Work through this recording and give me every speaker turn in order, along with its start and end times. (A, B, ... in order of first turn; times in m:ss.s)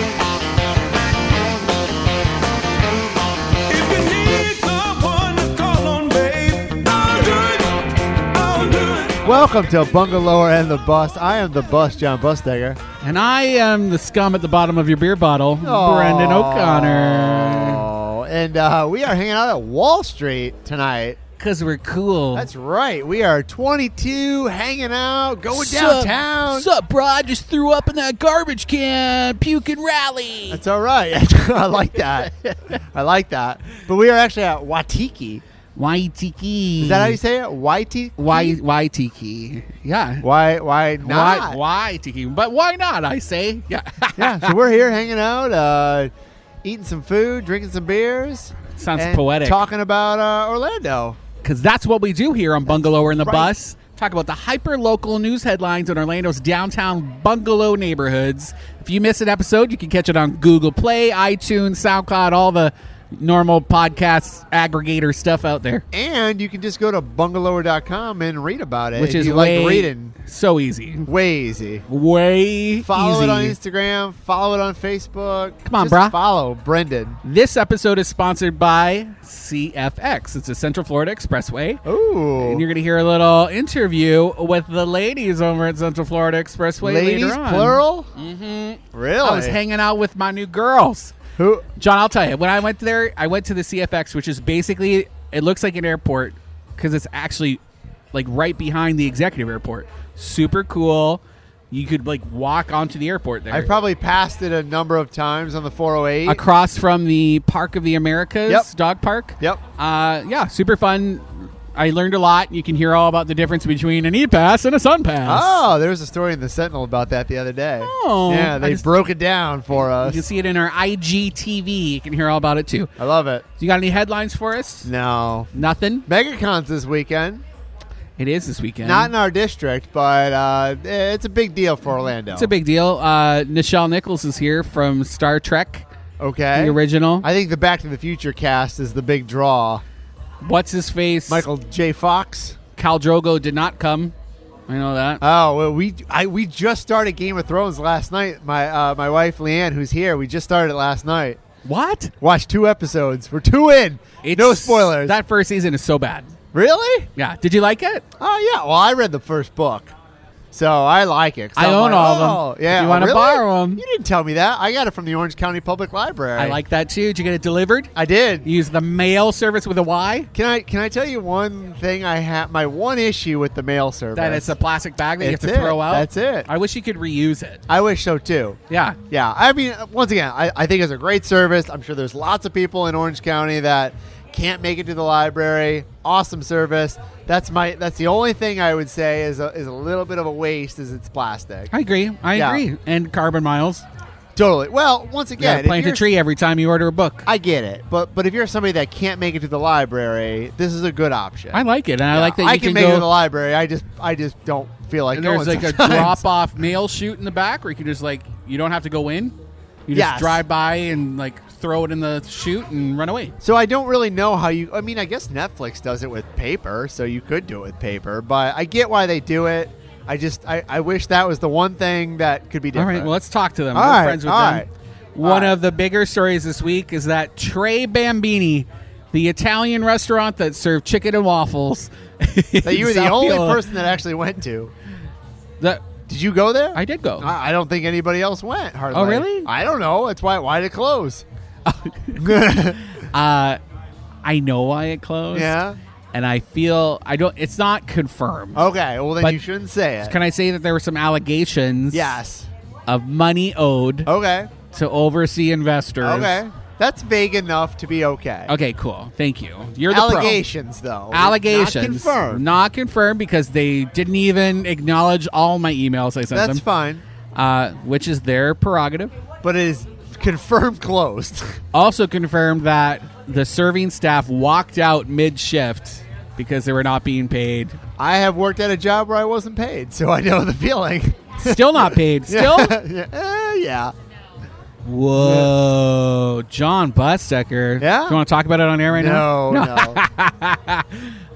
0:03.7-0:09.2 A
0:09.2-0:12.8 B
0:13.0-0:17.8 C
0:15.6-0:21.2 B
0:21.4-0:22.5 C
0:22.3-0:26.7 B
0:25.5-0:30.6 C
0:30.5-0:35.4 B
0:35.8-0:37.2 C
0:36.8-0:38.6 B
0:38.2-0:40.2 C
0:40.2-0:41.6 B
0:41.0-0:44.5 C
0:44.2-0:46.1 B
0:46.6-0:51.2 B
0:48.7-0:49.6 C
0:51.4-1:05.8 C
0:52.7-0:53.5 B
1:05.9-1:10.1 B
1:09.0-1:11.1 C
1:11.1-1:11.8 B
1:11.9-1:13.6 C
1:12.8-1:17.2 B
1:15.6-1:16.1 C
1:17.2-1:21.8 C
1:21.8-1:22.6 B
1:22.4-1:31.1 C
1:26.8-1:28.1 B
1:28.9-1:29.6 B
1:31.4-1:31.6 B
1:31.8-1:37.6 C
1:38.1-1:43.7 C
1:43.5-1:46.4 B
1:46.2-1:55.6 C
1:55.2-2:00.2 B
1:57.8-1:58.9 C
1:59.7-2:02.9 C
2:03.0-2:03.4 B
2:03.6-2:04.9 C
2:04.8-2:05.5 B
2:05.5-2:06.1 C
2:06.1-2:07.4 B
2:08.2-2:09.1 C
2:08.8-2:12.5 B
2:12.3-2:15.9 C
2:16.2-2:19.8 B
2:16.5-2:17.3 C
2:20.4-2:21.4 C
2:21.3-2:22.6 B
2:22.8-2:24.1 C
2:24.7-2:25.2 C
2:25.2-2:31.4 B
2:31.6-2:32.1 C
2:32.2-2:35.2 B
2:34.2-2:36.3 C
2:36.5-2:37.1 B
2:37.2-2:38.0 C
2:38.2-2:39.9 B
2:40.5-2:46.6 B
2:41.6-2:43.8 C
2:46.4-2:47.9 C
2:47.9-2:48.5 B
2:48.4-2:50.3 C
2:50.3-2:54.5 B
2:54.1-2:57.6 C
2:55.2-2:56.5 B
2:57.7-2:58.6 B
2:58.7-2:59.0 C
2:59.1-3:11.7 B
3:11.7-3:13.8 C
3:12.3-3:12.6 B
3:14.4-3:16.1 B
3:15.4-3:17.3 C
3:17.2-3:26.2 B
3:21.5-3:23.1 C
3:25.1-3:29.3 C
3:29.9-3:33.3 C
3:29.9-3:30.4 B
3:33.4-3:43.1 B
3:42.7-3:53.6 C
3:43.7-3:44.7 B
3:45.2-3:45.6 B
3:52.6-3:54.7 B
3:56.0-4:01.2 B
3:56.7-3:57.3 C
3:58.9-3:59.5 C
4:01.6-4:03.6 C
4:02.2-4:02.8 B
4:04.2-4:05.6 C
4:05.3-4:05.8 B
4:06.1-4:08.6 C
4:08.5-4:10.1 B
4:10.0-4:12.1 C
4:11.9-4:12.5 B
4:12.9-4:14.1 C
4:14.0-4:14.5 B
4:14.7-4:16.4 C
4:16.0-4:18.5 B
4:18.5-4:20.4 C
4:19.9-4:22.4 B
4:21.1-4:26.6 C
4:26.3-4:27.0 B
4:27.3-4:29.1 C
4:29.4-4:31.6 B
4:31.7-4:37.8 C
4:38.0-4:43.9 B
4:41.4-4:42.8 C
4:44.8-4:51.2 C
4:45.2-4:45.5 B
4:47.8-4:48.2 B
4:48.9-4:50.0 B